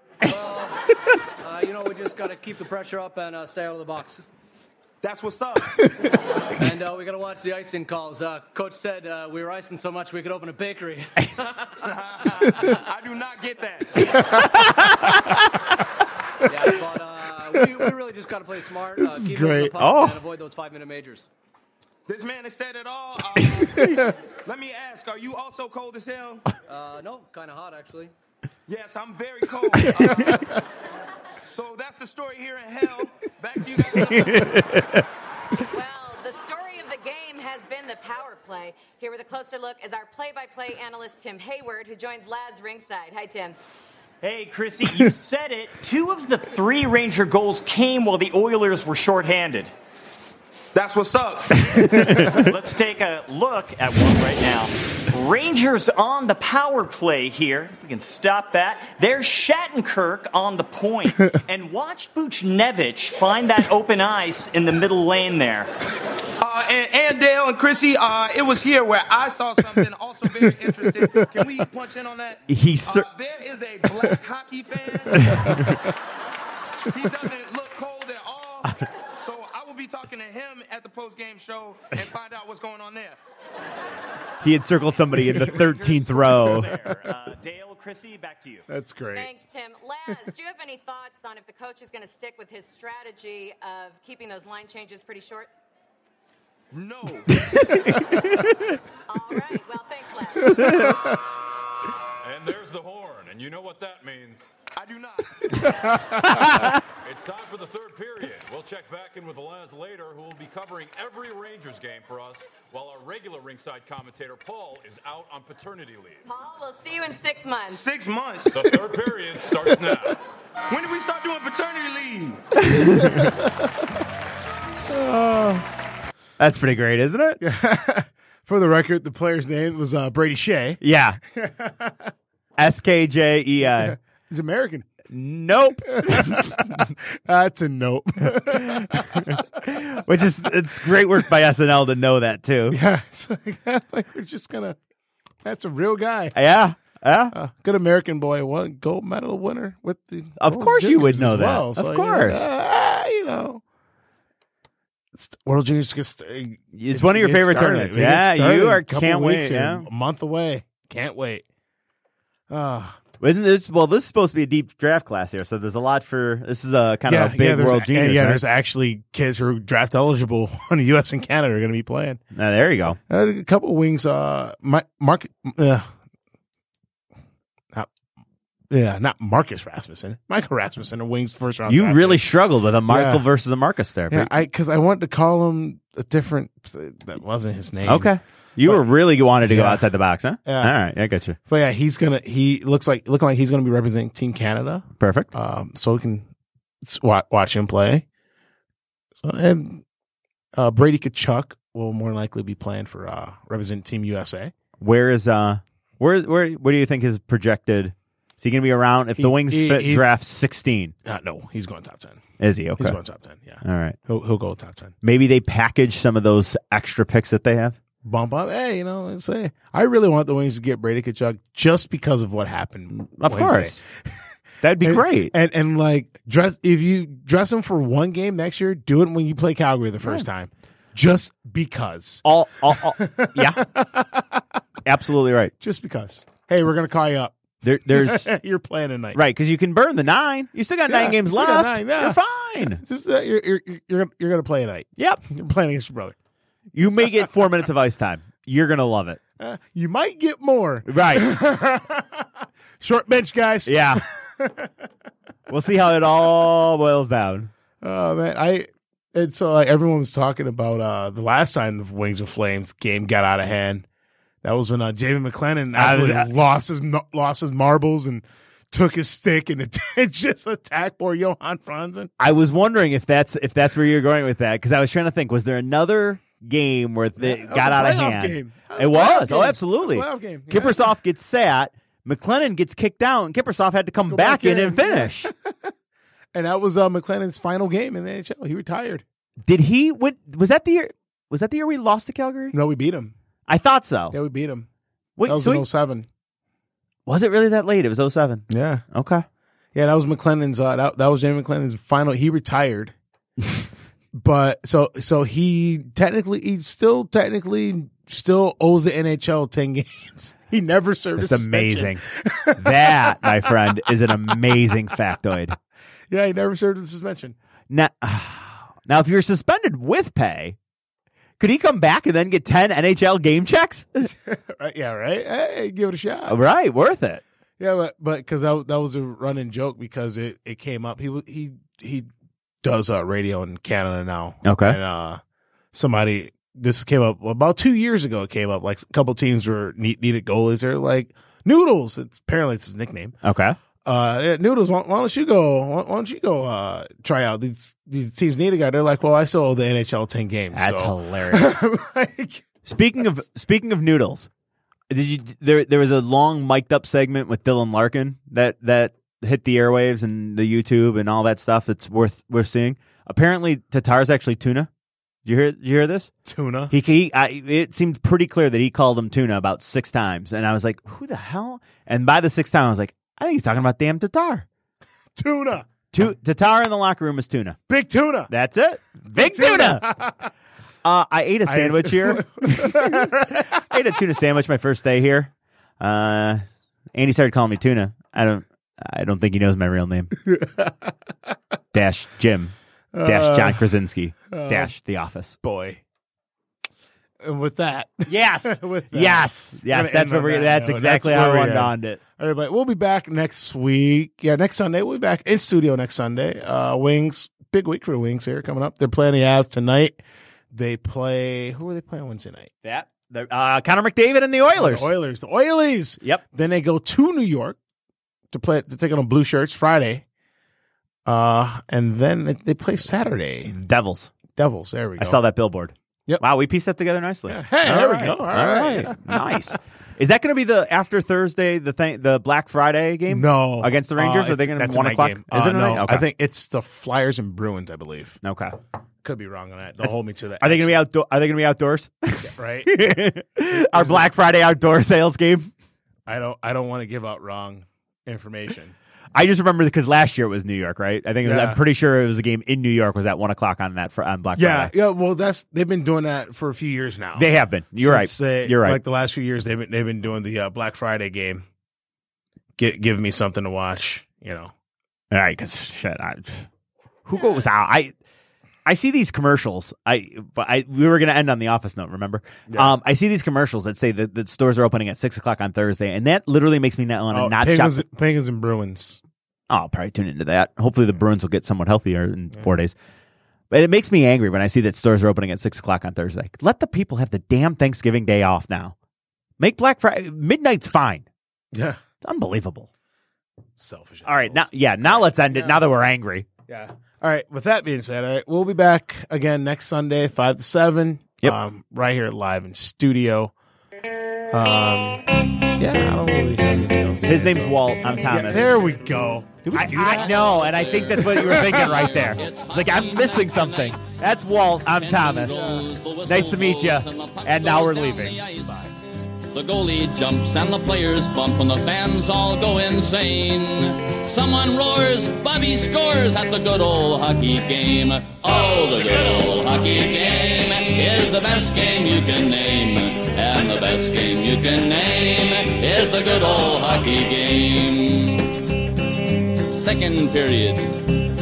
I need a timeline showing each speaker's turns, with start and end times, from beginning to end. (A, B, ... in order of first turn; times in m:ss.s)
0:00.2-0:00.9 A
0:01.4-0:04.2 A
0:05.0-0:05.8 B
0:06.5-0:11.7 A
0:11.8-0:14.1 B
0:14.4-0:15.5 C
0:16.4-0:21.3 A
0:19.0-0:19.7 D
0:19.8-0:20.2 C
0:22.1-0:26.4 B
0:23.6-0:24.0 C
0:23.8-0:24.1 D
0:26.6-0:28.1 A
0:28.7-0:30.6 B
0:31.4-0:34.6 B
0:33.9-0:35.1 C
0:35.7-0:43.6 E
0:44.2-0:49.7 F
0:50.7-0:51.7 B
0:51.7-0:52.5 C
0:51.9-0:52.4 D
0:52.3-1:05.7 F
1:06.4-1:15.6 B
1:10.4-1:11.2 D
1:12.5-1:13.0 C
1:15.1-1:15.9 D
1:15.2-1:15.7 C
1:16.9-1:23.2 B
1:24.4-1:26.7 C
1:25.4-1:28.6 F
1:28.7-1:29.3 D
1:29.1-1:35.5 E
1:36.7-1:37.4 B
1:37.3-1:38.8 C
1:39.1-1:40.9 E
1:40.5-1:41.0 C
1:40.6-1:41.0 D
1:42.2-1:44.5 G
1:44.7-1:45.4 B
1:46.3-1:46.7 C
1:47.0-1:56.2 G
1:56.2-1:57.8 E
1:57.7-1:58.5 B
1:58.5-2:00.2 G
2:00.7-2:02.4 B
2:02.6-2:03.3 C
2:02.8-2:03.7 D
2:04.9-2:05.6 D
2:06.4-2:07.4 C
2:07.4-2:10.8 D
2:10.8-2:11.2 C
2:11.3-2:12.1 D
2:12.6-2:14.0 C
2:13.8-2:14.9 D
2:15.1-2:16.6 C
2:15.9-2:19.4 D
2:18.6-2:22.8 C
2:22.7-2:24.8 D
2:25.4-2:26.3 D
2:26.3-2:27.3 C
2:27.3-2:33.6 D
2:30.4-2:32.5 C
2:35.1-2:41.4 D
2:36.7-2:39.9 C
2:42.5-2:43.0 D
2:43.2-2:48.4 C
2:47.0-2:52.2 D
2:52.3-2:53.0 C
2:53.1-2:55.9 D
2:58.7-3:02.2 D
3:01.7-3:04.3 C
3:02.9-3:03.2 D
3:04.1-3:08.1 D
3:07.8-3:11.4 C
3:08.6-3:09.8 D
3:10.4-3:10.8 D
3:11.4-3:16.3 D
3:15.0-3:15.3 C
3:16.8-3:18.0 D
3:19.1-3:19.8 D
3:20.5-3:24.5 D
3:24.8-3:30.9 C
3:29.2-3:30.1 D
3:31.0-3:32.2 D
3:32.4-3:33.0 C
3:32.8-3:34.9 D
3:33.6-3:34.0 C
3:35.0-3:37.8 C
3:38.0-3:44.1 D
3:42.9-3:43.8 C
3:44.6-3:45.3 C
3:44.8-3:54.6 D
3:52.2-3:53.6 C
3:54.8-3:55.5 C
3:55.6-3:57.4 D
3:57.6-3:58.3 C
3:57.9-3:59.2 D
3:59.1-4:02.8 C
4:00.9-4:06.1 D
4:06.7-4:09.2 C
4:09.4-4:14.7 D
4:10.8-4:11.3 C
4:13.6-4:14.0 C
4:15.5-4:17.5 C
4:17.8-4:23.8 D
4:24.4-4:32.1 D
4:25.7-4:26.3 C
4:32.2-4:45.3 C
4:37.2-4:40.9 D
4:44.1-4:45.7 D
4:46.3-4:49.0 D
4:49.4-4:52.6 C
4:52.5-4:53.1 D
4:53.5-4:54.2 C
4:54.1-4:54.7 D
4:55.2-4:55.7 C
4:55.2-4:56.1 D
4:57.1-4:59.2 C
4:58.5-4:58.8 D
4:59.7-5:02.9 D
5:04.1-5:13.6 D
5:11.2-5:12.0 C
5:12.5-5:15.5 C
5:16.1-5:17.4 D
5:17.7-5:20.6 C
5:21.4-5:24.1 C
5:24.1-5:26.4 D
5:26.3-5:27.2 C
5:27.6-5:32.1 D
5:32.6-5:35.2 D
5:34.4-5:34.8 C
5:35.7-5:43.1 D
5:43.2-5:43.6 C
5:43.8-5:52.4 D
5:50.5-5:51.6 C
5:52.6-5:54.3 C
5:54.9-6:04.7 C
6:05.2-6:06.1 C
6:06.2-6:06.7 D
6:06.7-6:14.4 C
6:15.2-6:15.7 D
6:15.9-6:17.6 C
6:17.7-6:18.3 D
6:18.3-6:19.9 C
6:19.1-6:20.3 D
6:20.8-6:26.4 C
6:21.4-6:23.4 D
6:26.9-6:30.1 C
6:30.3-6:30.9 D
6:31.7-6:32.5 C
6:32.9-6:33.6 D
6:33.0-6:35.4 C
6:34.3-6:34.7 D
6:35.4-6:35.8 D
6:37.2-6:50.0 D
6:38.1-6:42.0 C
6:50.5-6:52.5 D
6:52.6-6:54.9 C
6:54.5-6:57.6 D
6:58.3-7:00.0 D
7:01.0-7:03.5 D
7:03.4-7:04.1 C
7:04.3-7:05.2 D
7:05.0-7:16.0 C
7:07.3-7:09.5 D
7:13.1-7:18.2 D
7:18.2-7:18.5 C
7:19.0-7:20.8 D
7:19.8-7:25.5 C
7:22.2-7:22.9 D
7:23.5-7:24.1 D
7:26.1-7:28.7 D
7:29.1-7:34.7 C
7:31.2-7:31.6 D
7:34.4-7:41.4 D
7:37.2-7:38.8 C
7:42.6-7:44.5 D
7:45.1-7:46.5 C
7:47.0-7:47.9 C
7:48.6-7:57.8 C
7:52.5-7:52.8 D
7:57.1-7:59.0 D
7:59.5-8:02.7 C
8:03.5-8:08.7 C
8:09.4-8:11.1 C
8:11.5-8:11.8 D
8:12.0-8:12.7 C
8:13.6-8:15.6 D
8:14.0-8:16.2 C
8:16.5-8:23.3 D
8:24.3-8:30.4 D
8:27.0-8:28.7 C
8:29.5-8:38.6 C
8:29.8-8:33.9 H
8:31.1-8:31.4 D
8:34.6-8:38.7 H
8:39.3-8:58.4 H
8:59.5-9:00.8 H